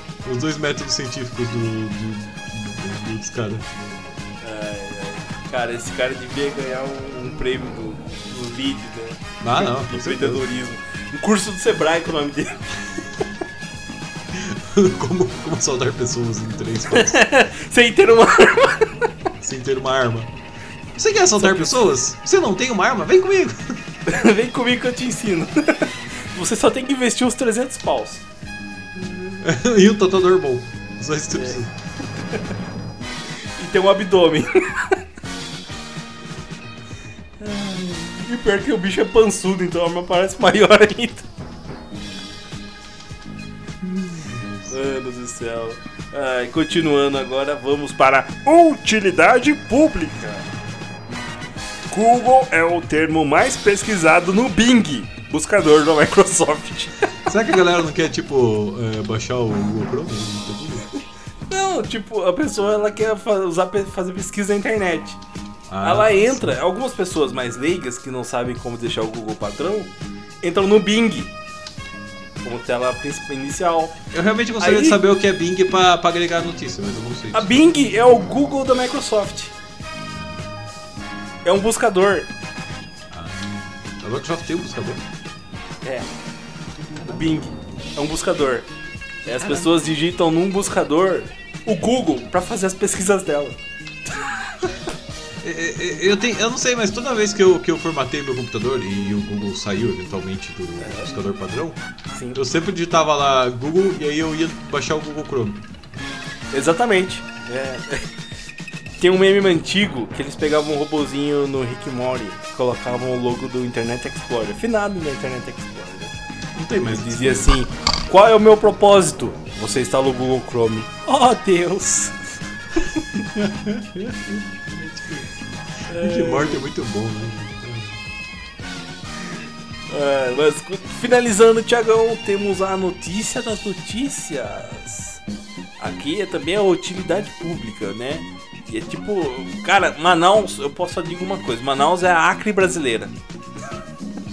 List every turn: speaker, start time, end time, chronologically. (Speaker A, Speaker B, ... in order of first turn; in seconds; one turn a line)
Speaker A: 0.2-3.7
Speaker B: 4.4-12.8
Speaker A: 9.4-10.4
Speaker A: 14.3-17.2
Speaker B: 16.9-19.1
Speaker A: 19.4-20.3
Speaker A: 20.9-23.8
Speaker B: 21.4-21.9
Speaker B: 24.1-28.2
Speaker B: 28.9-29.4
Speaker A: 29.4-31.7
Speaker B: 33.6-35.0
Speaker B: 37.4-41.2
Speaker A: 43.8-44.6
Speaker B: 44.7-48.7
Speaker C: 48.5-50.3
Speaker C: 51.9-52.8
Speaker B: 52.0-57.1
Speaker A: 57.2-60.9
Speaker B: 61.5-65.2
Speaker A: 65.7-66.6
Speaker B: 65.8-71.3
Speaker B: 72.4-74.0
Speaker A: 74.1-77.6
Speaker B: 74.6-75.0
Speaker B: 77.3-79.5
Speaker A: 80.1-80.6
Speaker B: 81.4-82.3
Speaker A: 83.1-85.0
Speaker B: 85.8-86.1
Speaker B: 87.0-88.7
Speaker B: 89.2-94.7
Speaker A: 89.4-89.7
Speaker A: 95.4-101.8
Speaker B: 100.8-101.1
Speaker B: 102.1-102.4
Speaker A: 102.3-105.6
Speaker B: 106.5-108.1
Speaker B: 109.0-116.1
Speaker A: 116.5-117.5
Speaker B: 116.8-122.2
Speaker A: 123.1-125.3
Speaker B: 125.9-126.6
Speaker A: 125.9-128.0
Speaker B: 129.9-135.2
Speaker B: 135.8-143.1